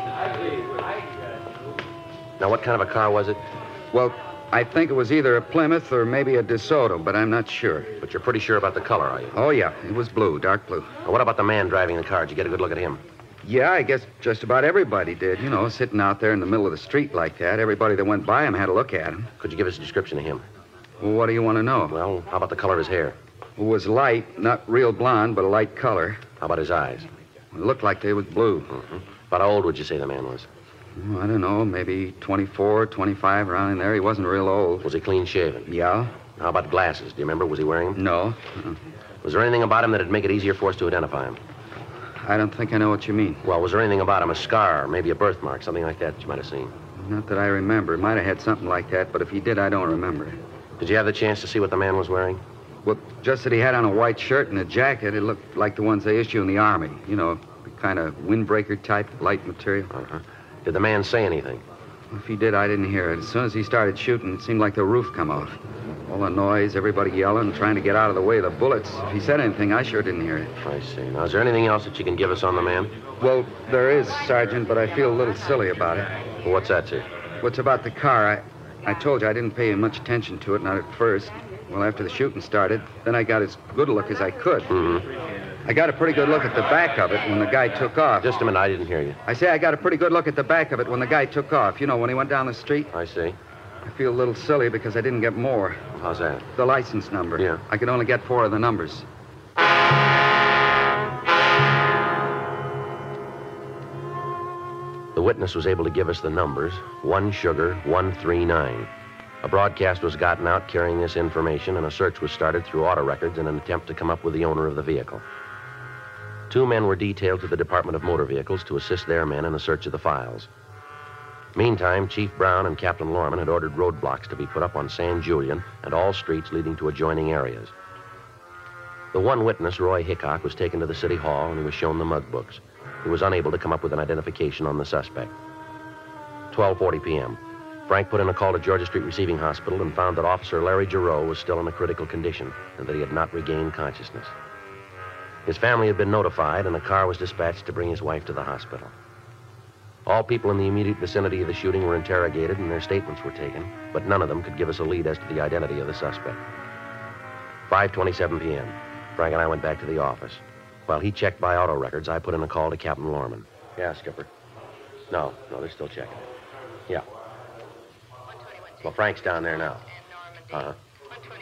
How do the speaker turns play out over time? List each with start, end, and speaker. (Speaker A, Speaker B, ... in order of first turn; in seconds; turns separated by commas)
Speaker A: 2.4-3.4, Speaker B: 3.9-7.9, Speaker A: 8.0-9.4, Speaker B: 9.3-10.9, Speaker A: 11.1-13.0, Speaker B: 13.4-19.3, Speaker A: 19.4-20.4, Speaker B: 21.0-22.0, Speaker A: 21.9-23.2, Speaker B: 23.6-26.2, Speaker A: 26.4-27.1, Speaker B: 27.5-28.8, Speaker A: 28.7-30.5, Speaker B: 31.0-34.9, Speaker A: 34.8-35.7, Speaker B: 35.7-36.2, Speaker A: 36.4-38.0, Speaker B: 38.0-38.8, Speaker A: 39.2-41.4, Speaker B: 42.2-43.4, Speaker A: 43.4-46.7, Speaker B: 47.0-50.4, Speaker A: 50.8-52.4, Speaker B: 52.9-59.9, Speaker A: 59.9-61.6, Speaker B: 62.1-70.5, Speaker A: 70.6-72.9, Speaker B: 73.2-76.1, Speaker A: 76.4-77.1, Speaker B: 77.4-84.7, Speaker A: 84.7-85.1, Speaker B: 85.7-88.3, Speaker A: 88.2-89.2, Speaker B: 89.3-92.9, Speaker A: 92.9-93.4, Speaker B: 93.8-95.8, Speaker A: 95.9-96.5, Speaker B: 96.5-99.1, Speaker A: 97.4-97.6, Speaker A: 105.1-108.9, Speaker A: 109.4-115.2, Speaker A: 116.5-120.5, Speaker A: 121.5-127.7, Speaker A: 129.1-135.3, Speaker A: 136.5-144.3, Speaker A: 145.5-148.9, Speaker A: 150.1-156.4, Speaker A: 157.7-164.3, Speaker A: 165.1-166.3, Speaker A: 168.8-169.9, Speaker A: 170.5-170.8